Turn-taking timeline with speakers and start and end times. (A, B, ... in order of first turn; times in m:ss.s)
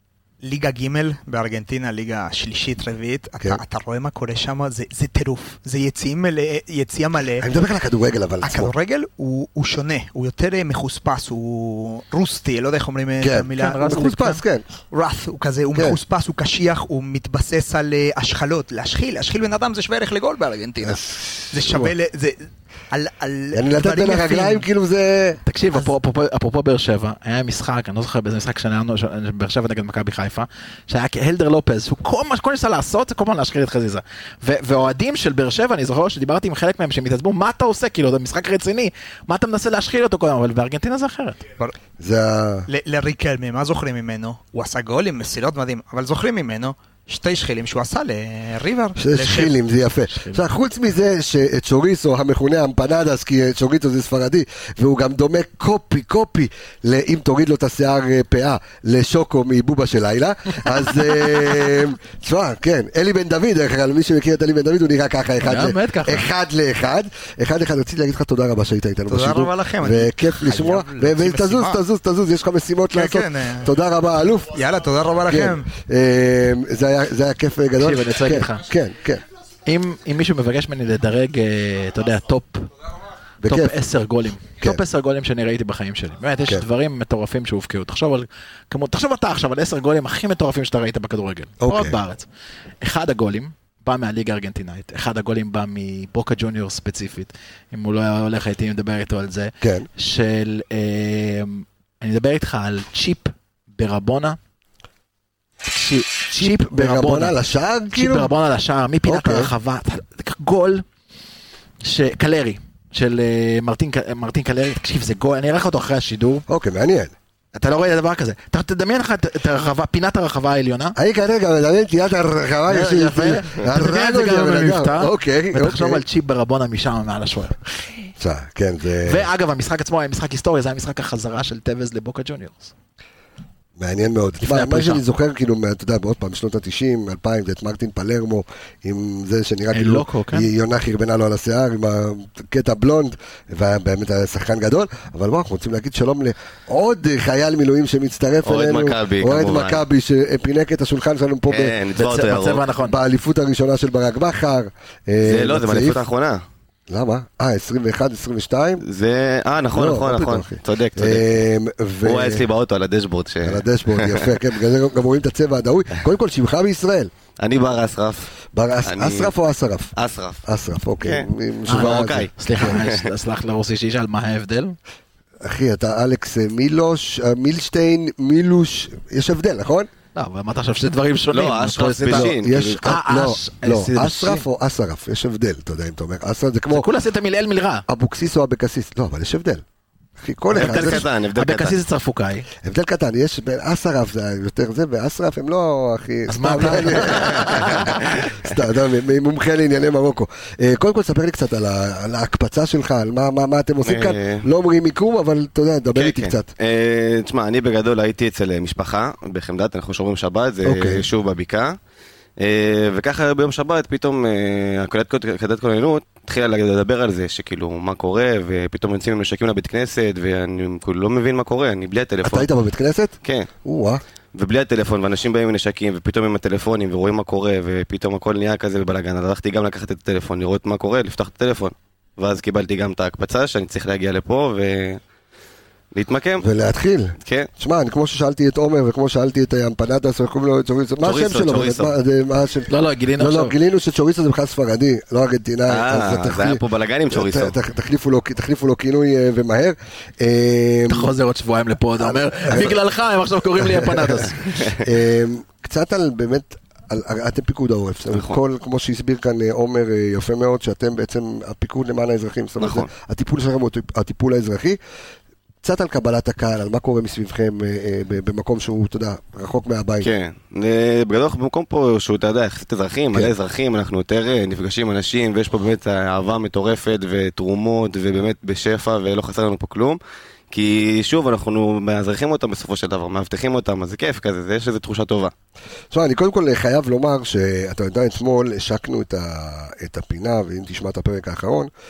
0:00.4-0:07.5 A
0:07.4-0:08.7 B
0:08.4-0:24.6 A
0:13.2-0:14.6 B
0:13.6-0:14.1 C
0:20.8-0:21.9 B
0:23.5-0:25.4 B
0:25.5-0:41.4 C
0:42.0-0:42.7 B
0:42.7-0:49.5 A
0:49.0-1:14.5 B
1:05.4-1:06.3 C
1:09.1-1:11.8 A
1:12.9-1:13.7 A
1:14.5-1:15.7 A
1:15.3-1:19.2 B
1:17.8-1:18.6 C
1:19.7-1:22.7 C
1:23.4-1:23.8 B
1:23.4-1:32.3 C
1:31.6-1:32.0 B
1:32.8-1:44.4 C
1:39.6-1:39.9 B
1:45.7-1:47.4 C
1:46.3-1:48.3 B
1:47.9-1:50.8 C
1:49.0-1:49.5 B
1:51.8-1:56.4 C
1:56.5-1:57.1 B
1:57.6-2:01.0 C
2:01.0-2:06.0 B
2:02.7-2:08.1 C
2:08.2-2:09.3 B
2:09.1-2:12.7 C
2:13.8-2:31.8 B
2:14.4-2:15.0 C
2:19.7-2:20.5 C
2:28.4-2:29.8 D
2:31.5-2:32.6 D
2:32.0-2:33.0 C
2:32.8-2:36.0 B
2:35.2-2:36.4 D
2:36.9-2:38.8 B
2:38.8-2:41.2 D
2:39.7-2:42.5 B
2:42.0-2:44.2 D
2:43.4-2:47.1 B
2:47.4-2:48.3 D
2:48.5-2:49.9 B
2:48.9-2:49.3 D
2:50.0-2:50.4 D
2:50.5-2:52.8 B
2:51.0-2:53.0 D
2:51.7-2:54.8 C
2:55.4-2:59.9 B
3:00.2-3:04.4 C
3:01.3-3:02.9 D
3:02.1-3:06.9 B
3:06.7-3:07.8 C
3:07.9-3:09.6 B
3:10.2-3:11.1 B
3:10.5-3:11.8 D
3:10.5-3:12.5 C
3:12.6-3:26.5 B
3:16.3-3:18.2 C
3:23.8-3:24.5 D
3:26.0-3:31.7 D
3:30.6-3:31.0 B
3:32.4-3:42.5 D
3:42.2-3:44.0 B
3:43.2-3:43.5 D
3:44.4-3:55.0 D
3:55.9-3:56.5 D
3:56.4-4:11.1 B
4:01.0-4:01.9 D
4:02.7-4:03.6 C
4:05.7-4:07.6 D
4:10.9-4:14.6 C
4:12.0-4:12.8 B
4:13.6-4:24.8 B
4:18.1-4:18.4 D
4:22.6-4:22.9 D
4:25.6-4:30.1 B
4:30.0-4:40.0 D
4:40.5-4:45.3 D
4:45.9-4:51.7 B